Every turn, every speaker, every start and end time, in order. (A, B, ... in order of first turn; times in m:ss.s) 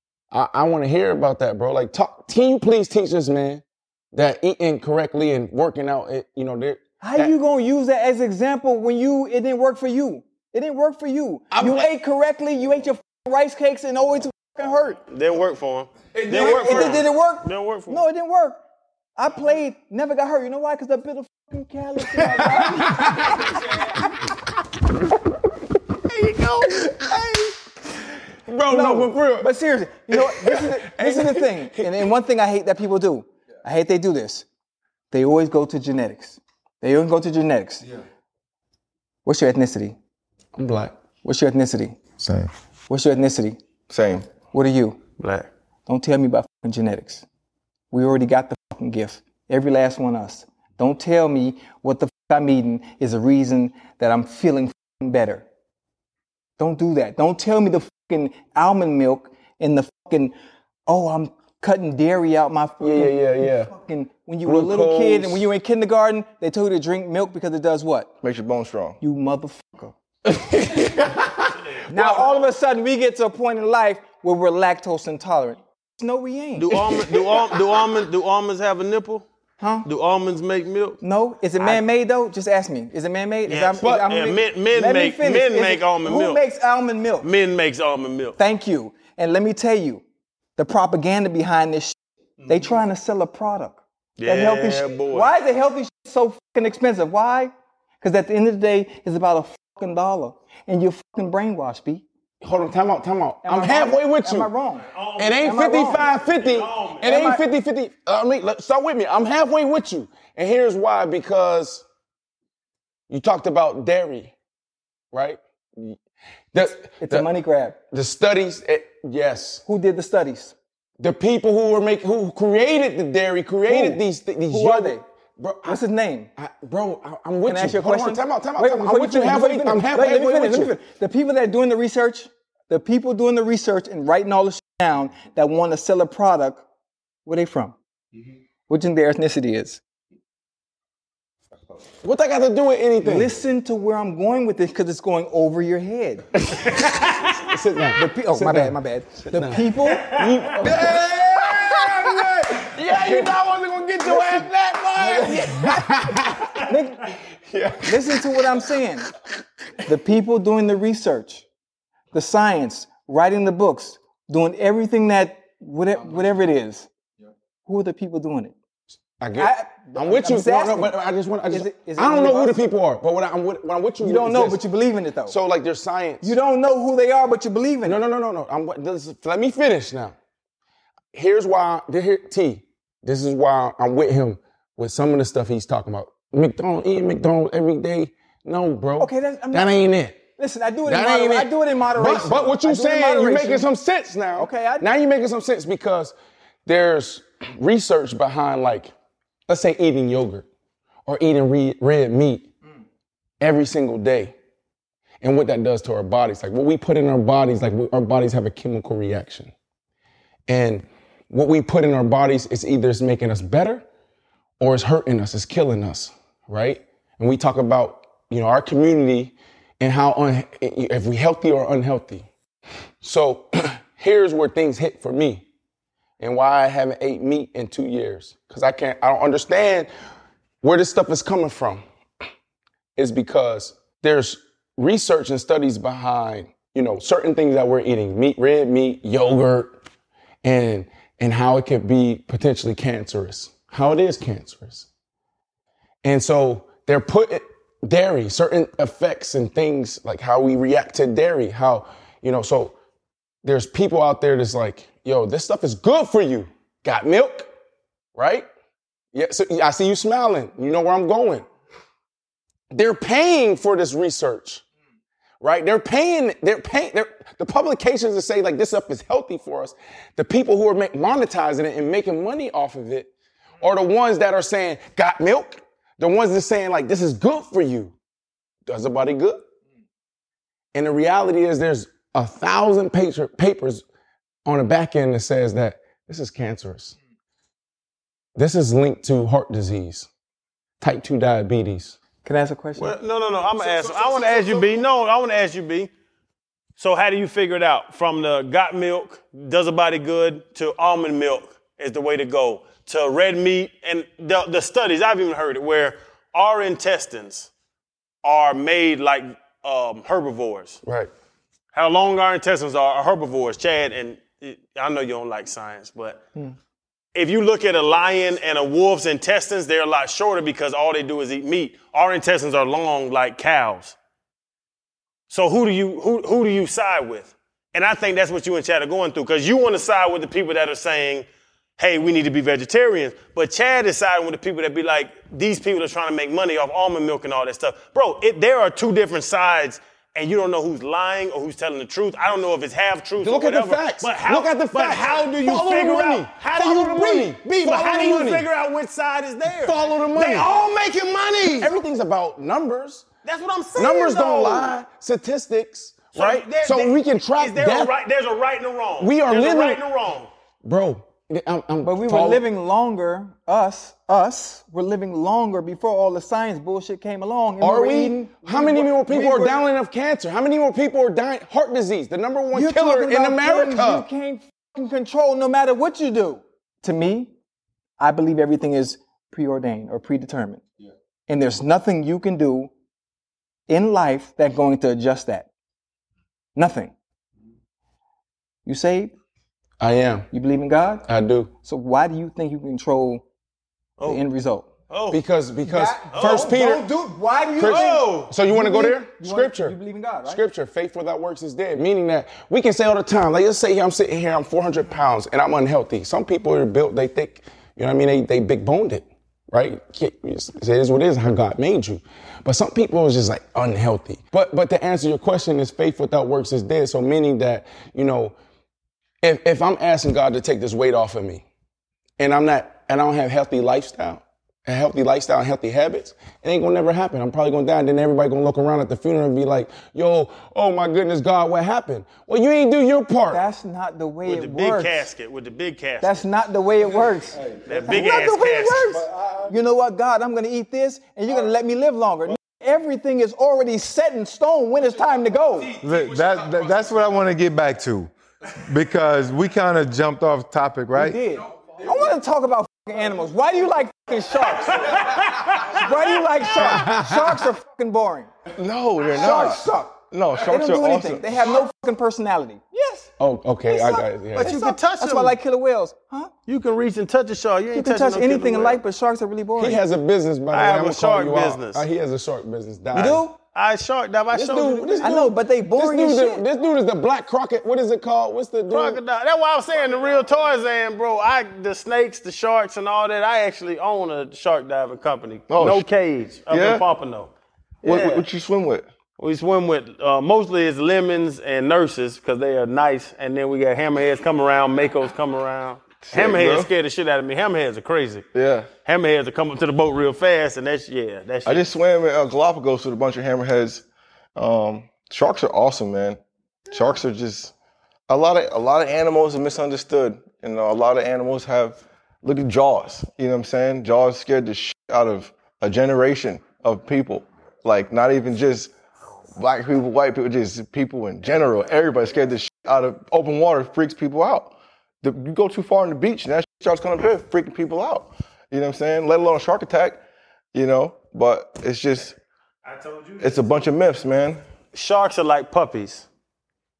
0:00.3-0:07.3 A
0:07.0-0:15.0 B
0:11.5-0:11.8 A
0:15.1-0:18.0 C
0:16.1-0:17.0 A
0:16.3-0:18.6 B
0:19.2-0:23.9 B
0:22.4-0:23.5 A
0:26.1-0:27.2 C
0:26.7-0:27.2 A
0:28.5-0:29.5 A
0:28.7-0:34.4 B
0:30.1-0:32.0 A
0:35.1-0:37.9 B
0:39.2-0:40.0 B
0:40.6-0:41.0 A
0:41.2-0:42.0 B
0:42.2-0:42.5 D
0:42.9-0:43.6 B
0:43.9-0:44.3 E
0:44.5-0:45.0 B
0:45.2-0:45.5 C
0:45.9-0:47.2 B
0:47.9-0:55.4 B
0:56.6-1:00.3 B
1:00.9-1:08.1 B
1:02.8-1:03.7 A
1:04.4-1:05.4 A
1:08.2-1:09.0 E
1:09.0-1:09.9 B
1:10.2-1:12.1 A
1:11.5-1:12.3 C
1:11.9-1:16.8 B
1:16.6-1:19.2 C
1:19.6-1:19.9 B
1:19.8-1:21.0 C
1:21.0-1:27.3 B
1:23.5-1:26.4 C
1:23.8-1:24.2 A
1:27.2-1:28.4 C
1:28.4-1:30.0 B
1:30.6-1:32.0 B
1:32.5-1:42.0 B
1:34.2-1:35.3 C
1:42.4-1:44.5 A
1:43.4-1:44.8 B
1:44.9-1:47.0 C
1:45.2-1:51.8 A
1:45.4-1:46.0 B
1:47.0-1:47.4 B
1:53.1-1:54.3 A
1:55.1-1:56.0 A
1:56.5-1:57.3 A
1:56.8-1:57.8 B
1:57.9-1:59.6 A
1:59.6-2:00.5 B
2:01.0-2:05.8 A
2:03.7-2:05.0 B
2:05.6-2:06.3 B
2:06.4-2:10.8 A
2:07.4-2:16.6 B
2:17.2-2:17.8 B
2:18.7-2:19.8 B
2:22.0-2:23.3 A
2:23.0-2:26.3 B
2:26.4-2:36.7 A
2:26.6-2:27.4 C
2:27.9-2:33.3 B
2:30.0-2:30.3 C
2:34.0-2:37.1 B
2:37.4-2:38.7 A
2:37.8-2:39.1 B
2:39.8-2:41.4 B
2:42.1-2:46.9 B
2:47.6-2:48.5 B
2:49.2-2:54.6 A
2:49.4-2:51.0 B
2:51.5-2:52.6 B
2:54.0-2:55.3 B
2:55.3-2:56.4 A
2:56.2-2:58.0 B
2:57.8-3:00.1 A
3:01.1-3:10.2 A
3:09.0-3:09.8 B
3:10.4-3:13.6 B
3:10.8-3:16.1 A
3:14.4-3:14.9 B
3:16.6-3:18.9 A
3:19.5-3:20.5 A
3:21.0-3:22.5 A
3:23.4-3:24.3 A
3:25.2-3:29.5 A
3:30.5-3:33.8 A
3:34.6-3:42.3 A
3:43.0-3:45.4 A
3:46.2-3:49.9 A
3:50.6-3:51.8 A
3:53.0-3:59.7 A
4:00.4-4:04.9 A
4:06.0-4:12.7 A
4:13.4-4:17.5 A
4:18.1-4:18.5 A
4:19.1-4:21.4 A
4:22.7-4:24.6 A
4:25.4-4:33.1 A
4:33.6-4:37.9 A
4:38.6-4:39.4 A
4:40.7-4:43.8 A
4:44.4-4:47.0 A
4:48.4-4:50.1 A
4:50.8-4:52.0 A
4:52.2-4:52.9 B
4:52.8-4:55.9 C
4:56.8-5:07.5 C
5:08.2-5:10.8 C
5:10.8-5:11.1 A
5:11.7-5:16.2 C
5:17.1-5:24.0 C
5:25.3-5:31.2 C
5:31.8-5:51.7 C
5:43.2-5:48.4 A
5:49.5-5:50.6 A
5:51.6-5:53.0 A
5:53.2-5:54.8 C
5:53.8-5:57.9 A
5:56.1-6:00.3 C
5:59.0-5:59.8 A
6:00.6-6:02.4 A
6:01.8-6:09.6 B
6:07.6-6:14.0 A
6:12.5-6:17.3 B
6:18.0-6:20.6 B
6:21.3-6:22.7 B
6:23.7-6:25.5 B
6:26.5-6:26.9 B
6:28.6-6:29.1 B
6:29.8-6:30.3 A
6:30.3-6:31.0 B
6:31.1-6:31.5 A
6:31.6-6:33.2 B
6:34.0-6:34.7 B
6:34.9-6:35.2 C
6:35.1-6:36.9 A
6:35.6-6:40.4 B
6:36.1-6:36.5 C
6:37.6-6:58.3 A
6:37.6-6:38.3 C
6:59.2-7:01.4 A
7:02.2-7:13.4 A
7:13.3-7:15.1 B
7:14.2-7:16.3 C
7:16.0-7:25.8 B
7:17.6-7:19.0 C
7:25.8-7:31.2 D
7:30.9-7:38.3 B
7:34.9-7:35.8 C
7:36.5-7:37.4 A
7:38.5-7:41.4 E
7:39.2-7:43.1 B
7:43.2-7:44.5 A
7:43.7-7:46.3 B
7:44.4-7:45.4 C
7:46.5-7:48.8 C
7:47.7-7:49.8 B
7:49.6-7:53.3 A
7:50.5-7:51.8 C
7:52.9-7:53.3 B
7:53.4-7:55.1 C
7:54.3-7:59.0 A
7:55.0-7:56.4 B
7:58.7-8:07.3 C
8:05.5-8:05.9 E
8:06.5-8:06.8 E
8:07.8-8:08.9 E
8:07.8-8:08.2 C
8:09.2-8:18.3 C
8:16.0-8:16.7 E
8:18.3-8:18.7 E
8:18.8-8:21.6 C
8:21.4-8:23.8 E
8:24.4-8:26.2 E
8:26.7-8:27.5 E
8:28.1-8:38.7 E
8:39.4-8:50.0 E
8:50.5-8:52.2 E
8:52.6-8:53.5 C
8:53.2-8:54.4 E
8:54.7-8:56.1 C